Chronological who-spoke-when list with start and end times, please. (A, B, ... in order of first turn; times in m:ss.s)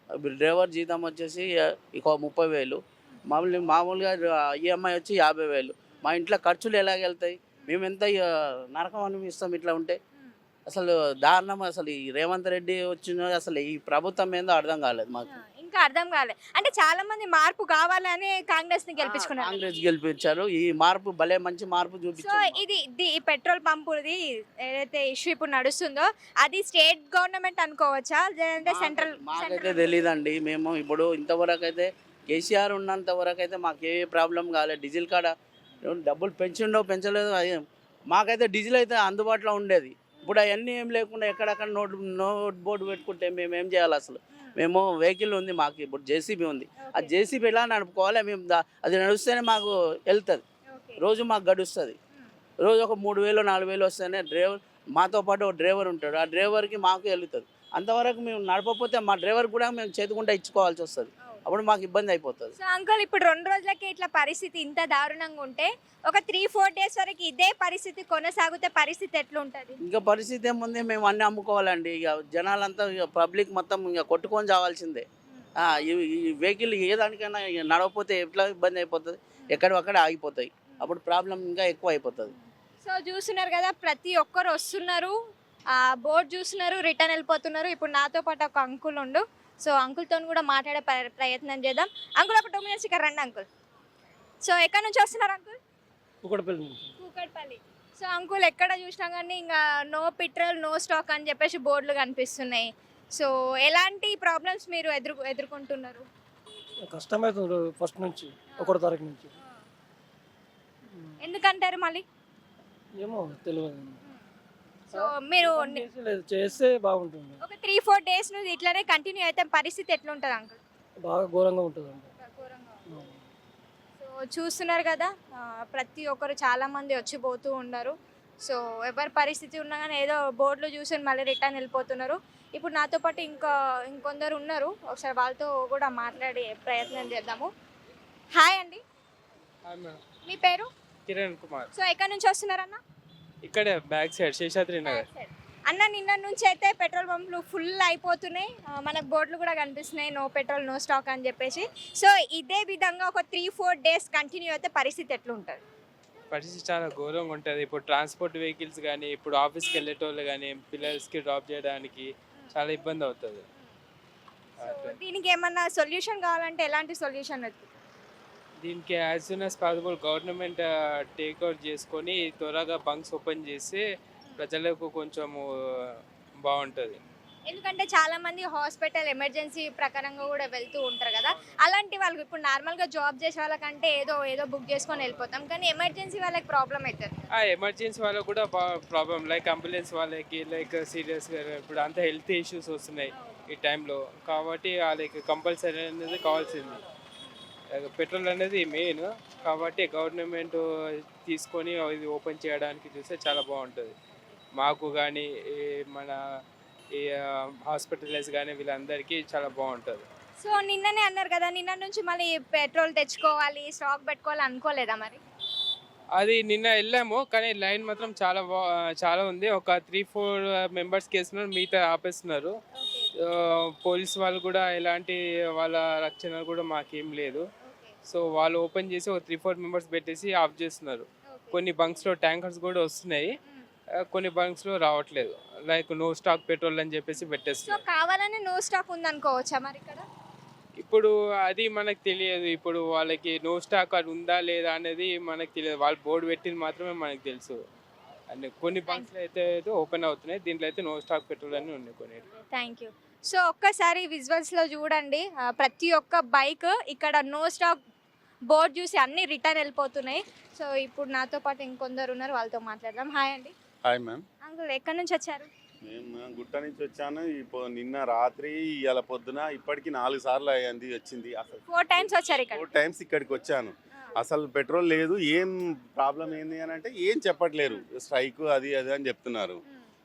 0:00.2-0:10.0 A
0:10.7-0:15.4 A
0:15.3-0:19.7 B
0:19.0-0:22.6 A
0:22.2-0:30.0 B
0:28.6-0:35.3 A
0:35.9-0:37.6 A
0:38.1-0:50.4 A
0:46.8-0:47.1 B
0:50.7-0:51.0 B
0:51.0-0:52.0 A
0:52.6-1:02.6 A
1:02.6-1:09.8 B
1:09.8-1:15.0 A
1:15.6-1:22.3 A
1:22.8-1:25.2 B
1:25.7-1:33.5 B
1:34.4-1:35.6 B
1:36.2-1:37.0 C
1:37.0-1:46.1 B
1:46.8-1:49.4 C
1:51.2-1:52.0 B
1:53.0-1:54.0 C
1:54.9-1:57.4 C
1:54.9-1:55.9 B
1:57.4-2:00.6 B
2:01.0-2:02.1 C
2:02.2-2:02.9 B
2:04.0-2:17.5 B
2:18.4-2:18.8 B
2:19.7-2:20.0 D
2:20.2-2:20.7 B
2:21.1-2:21.7 D
2:21.7-2:22.8 B
2:23.4-2:25.1 D
2:24.8-2:35.6 B
2:36.3-2:43.4 D
2:44.6-2:45.0 D
2:44.6-2:47.7 B
2:48.6-2:53.8 D
2:54.4-2:55.9 D
2:56.4-2:57.0 D
2:57.5-3:07.2 B
3:07.3-3:16.8 D
3:13.2-3:13.5 B
3:17.7-3:20.6 D
3:21.2-3:24.0 D
3:24.6-3:26.2 D
3:27.0-3:30.1 D
3:30.4-3:35.2 B
3:36.2-3:42.6 D
3:42.8-3:43.1 B
3:43.3-3:47.5 D
3:47.6-3:48.0 B
3:48.0-3:53.3 D
3:51.3-3:51.6 B
3:54.1-3:57.8 D
3:57.7-4:00.1 B
4:00.8-4:07.6 D
4:08.3-4:12.3 D
4:12.5-4:17.8 B
4:18.5-4:23.5 B
4:23.8-4:24.2 E
4:24.4-4:25.5 B
4:25.8-4:39.6 E
4:31.7-4:32.7 B